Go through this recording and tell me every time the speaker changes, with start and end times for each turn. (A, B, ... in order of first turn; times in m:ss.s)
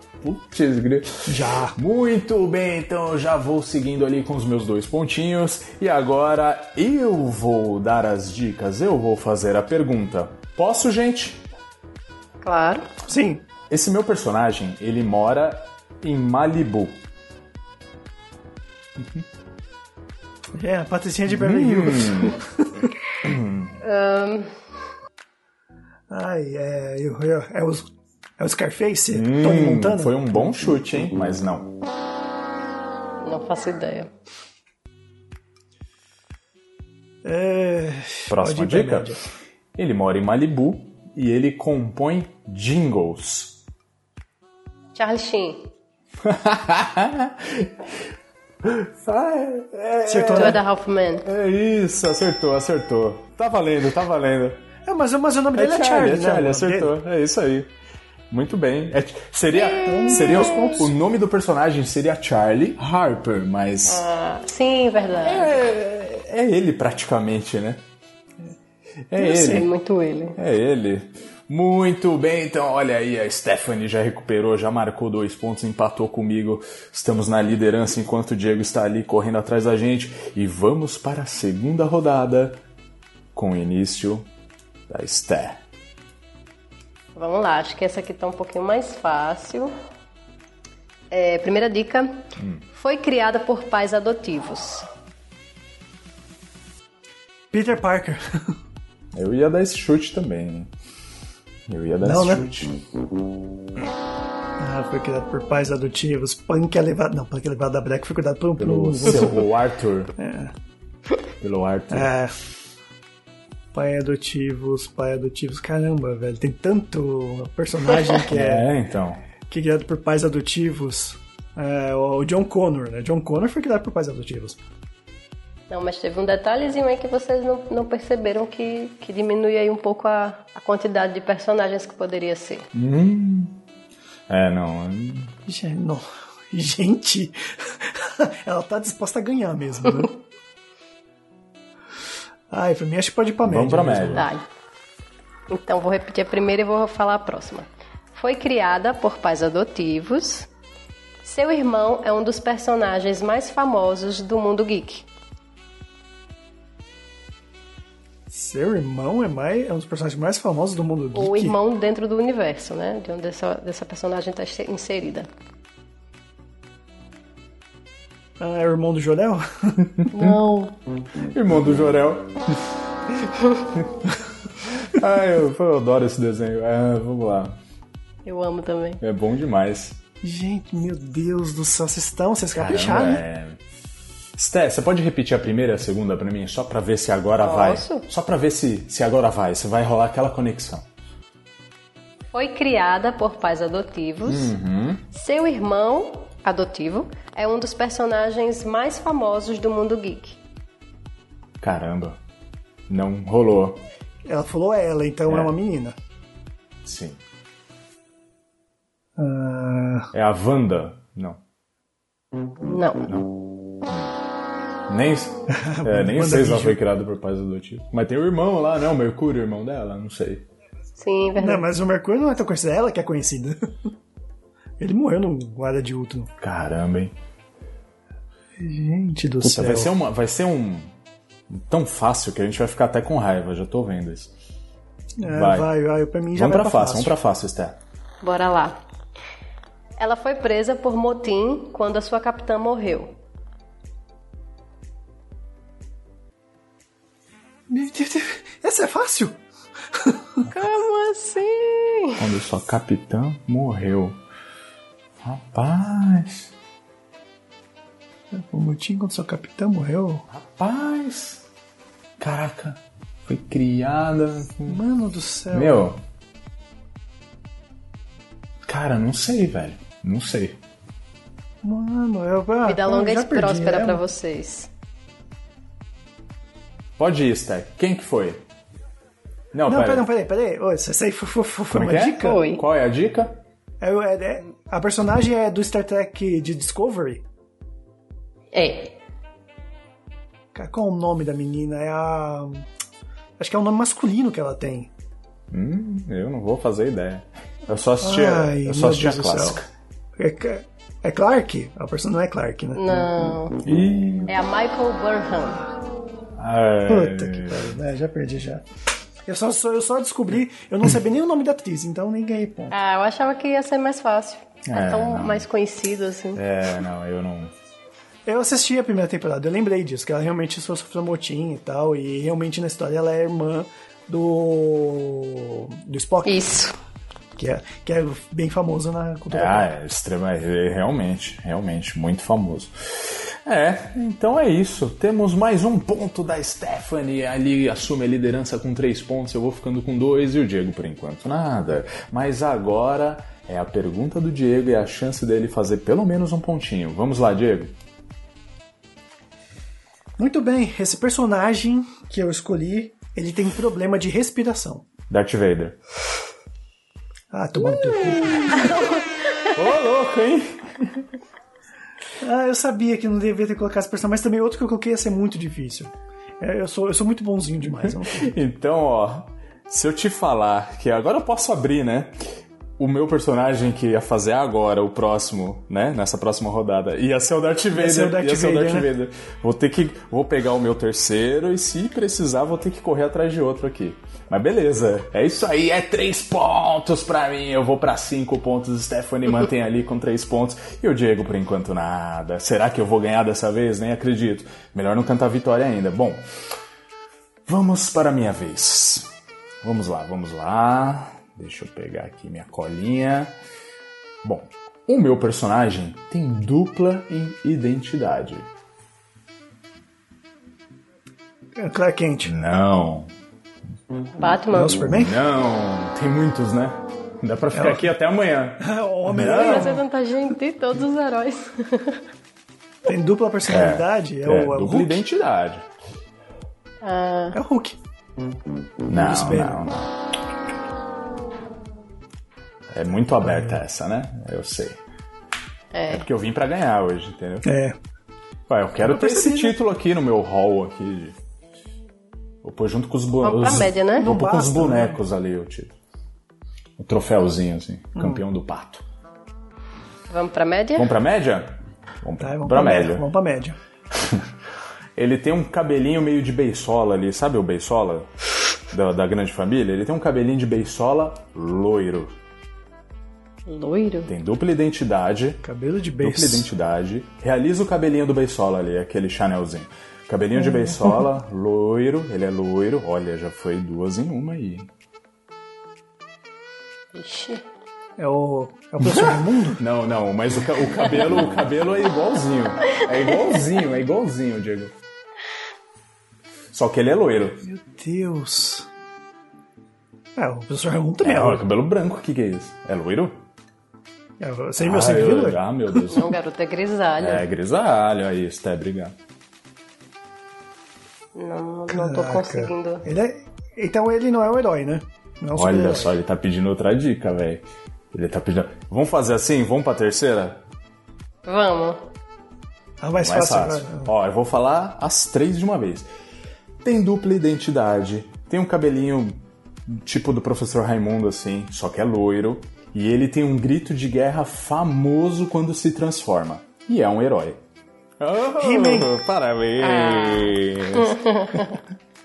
0:00.2-0:11.4 A
0:01.3-0:01.8 B
0:12.4-0:12.9 C
0:13.0-0:13.4 B
0:13.7-0:17.0 A
0:19.0-0:19.2 A
0:20.6-0:22.9 B
0:21.3-0:22.4 A
0:23.2-0:23.8 A
0:23.8-0:24.5 C
0:26.1-0:30.2 B
0:29.1-0:31.7 A
0:33.2-0:34.1 C
0:37.2-0:39.2 B
0:38.3-0:39.2 A
0:39.8-0:43.6 A
0:45.0-0:45.7 C
0:46.2-0:48.0 A
0:48.6-0:50.6 A
0:50.1-0:50.6 B
0:50.3-0:51.3 C
0:51.2-0:54.6 A
0:54.8-0:56.9 B
0:55.5-0:57.7 A
0:58.3-1:04.0 A
0:59.6-1:00.8 C
0:59.8-1:00.9 B
1:03.9-1:05.6 C
1:05.2-1:07.8 A
1:09.1-1:09.7 A
1:09.2-1:10.4 C
1:10.4-1:22.6 A
1:23.3-1:24.3 A
1:24.9-1:25.6 A
1:27.2-1:29.7 C
1:31.1-1:34.9 C
1:32.4-1:32.6 A
1:37.5-1:38.5 B
1:39.1-1:40.7 A
1:41.7-1:42.8 A
1:42.0-1:42.5 B
1:44.6-1:49.4 B
1:48.6-1:50.1 A
1:50.2-1:50.5 B
1:51.4-1:52.1 A
1:51.9-1:52.3 B
1:53.7-1:58.7 B
1:58.3-1:59.2 A
1:59.5-2:04.6 B
2:05.7-2:12.7 C
2:12.7-2:13.6 A
2:14.3-2:15.3 A
2:15.5-2:20.2 B
2:22.5-2:24.2 B
2:23.4-2:24.3 A
2:24.1-2:24.4 C
2:25.5-2:30.5 C
2:31.2-2:35.1 C
2:38.3-2:41.6 B
2:41.1-2:45.3 C
2:48.4-2:50.1 B
2:50.1-2:50.7 C
2:51.3-2:57.6 A
2:58.2-2:59.0 C
2:59.0-3:00.0 A
3:00.2-3:03.2 B
3:02.6-3:03.6 A
3:04.4-3:10.9 A
3:07.4-3:08.1 C
3:12.3-3:14.5 C
3:14.3-3:15.0 A
3:15.1-3:20.4 C
3:21.6-3:22.2 A
3:22.9-3:23.8 A
3:24.3-3:26.0 B
3:25.3-3:25.5 A
3:26.8-3:27.2 A
3:29.2-3:30.1 B
3:30.1-3:31.4 A
3:32.6-3:33.1 C
3:33.0-3:33.3 A
3:33.8-3:34.1 A
3:34.9-3:40.5 A
3:35.5-3:36.8 B
3:41.0-3:41.7 C
3:41.4-3:43.9 B
3:44.8-3:46.3 B
3:46.4-3:47.2 A
3:48.6-3:49.9 B
3:49.4-3:50.9 A
3:51.5-3:54.3 A
3:55.2-3:57.2 B
3:55.3-3:55.7 A
3:56.4-3:57.8 A
3:58.2-3:58.8 C
4:00.0-4:03.2 C
4:07.7-4:09.4 B
4:09.9-4:10.4 B
4:10.5-4:12.2 C
4:12.2-4:14.2 A
4:15.2-4:16.5 A
4:18.3-4:20.2 B
4:20.3-4:21.5 A
4:22.2-4:24.8 A
4:24.7-4:25.9 B
4:25.5-4:26.0 A
4:28.7-4:30.6 A
4:31.6-4:34.0 B
4:32.6-4:34.7 C
4:37.0-4:38.4 A
4:39.5-4:40.1 A
4:39.7-4:42.4 B
4:41.7-4:43.4 A
4:42.2-4:42.6 C
4:43.8-4:47.2 B
4:48.5-4:49.0 C
4:50.5-4:52.7 B
4:53.4-4:54.9 B
4:55.5-4:59.7 A
4:58.0-4:59.6 B
5:00.2-5:03.1 B
5:02.7-5:03.6 C
5:03.6-5:04.3 A
5:04.3-5:05.6 C
5:06.4-5:07.8 A
5:06.9-5:08.6 B
5:09.3-5:12.8 B
5:12.7-5:16.4 C
5:14.7-5:15.5 A
5:16.4-5:17.5 A
5:18.3-5:26.4 B
5:26.2-5:26.8 C
5:27.4-5:29.7 B
5:29.3-5:47.8 A
5:50.2-5:54.9 B
5:55.1-5:55.8 A
5:57.3-5:58.8 B
5:58.2-5:58.6 A
5:59.4-6:01.0 A
6:02.2-6:08.3 B
6:07.8-6:12.2 A
6:12.8-6:36.2 A
6:17.7-6:18.9 B
6:37.5-6:39.1 A
6:39.6-6:43.4 A
6:44.2-6:48.5 A
6:51.6-6:52.3 B
6:52.2-6:53.1 A
6:54.2-6:54.8 C
6:54.5-6:55.2 B
6:54.9-6:59.8 A
6:57.5-6:57.9 B
6:58.6-6:59.8 B
6:59.2-7:02.0 C
7:02.9-7:05.0 B
7:03.4-7:05.7 A
7:06.8-7:07.4 C
7:07.3-7:07.8 B
7:08.9-7:09.6 B
7:08.9-7:09.9 A
7:12.7-7:14.8 A
7:13.3-7:13.6 B
7:15.7-7:16.1 C
7:15.9-7:17.5 A
7:17.4-7:17.8 B
7:18.5-7:21.2 A
7:18.8-7:19.6 B
7:22.4-7:25.8 A
7:23.2-7:24.1 C
7:24.0-7:25.0 B
7:26.8-7:28.8 A
7:28.0-7:28.2 B
7:30.1-7:30.9 C
7:30.8-7:33.1 A
7:32.2-7:33.6 B
7:33.9-7:34.3 A
7:35.0-7:38.1 A
7:38.7-7:42.2 A
7:43.5-7:44.1 C
7:44.1-7:45.4 A
7:45.4-7:46.5 B
7:46.0-7:54.7 A
7:50.5-7:50.8 B
7:56.9-7:57.4 C
7:58.0-7:59.6 B
7:58.8-8:04.7 A
8:06.5-8:07.4 A
8:07.4-8:08.7 B
8:10.2-8:11.4 B
8:11.0-8:13.2 A
8:14.2-8:15.9 B
8:14.6-8:16.2 A
8:15.9-8:17.2 C
8:17.0-8:19.0 A
8:21.2-8:22.8 C
8:21.7-8:25.9 B
8:25.3-8:30.4 A
8:31.2-8:31.9 C
8:32.8-8:33.9 B
8:33.0-8:35.9 A
8:36.6-8:47.4 A
8:48.0-8:51.4 A
8:48.4-8:48.9 B
8:49.6-8:51.6 C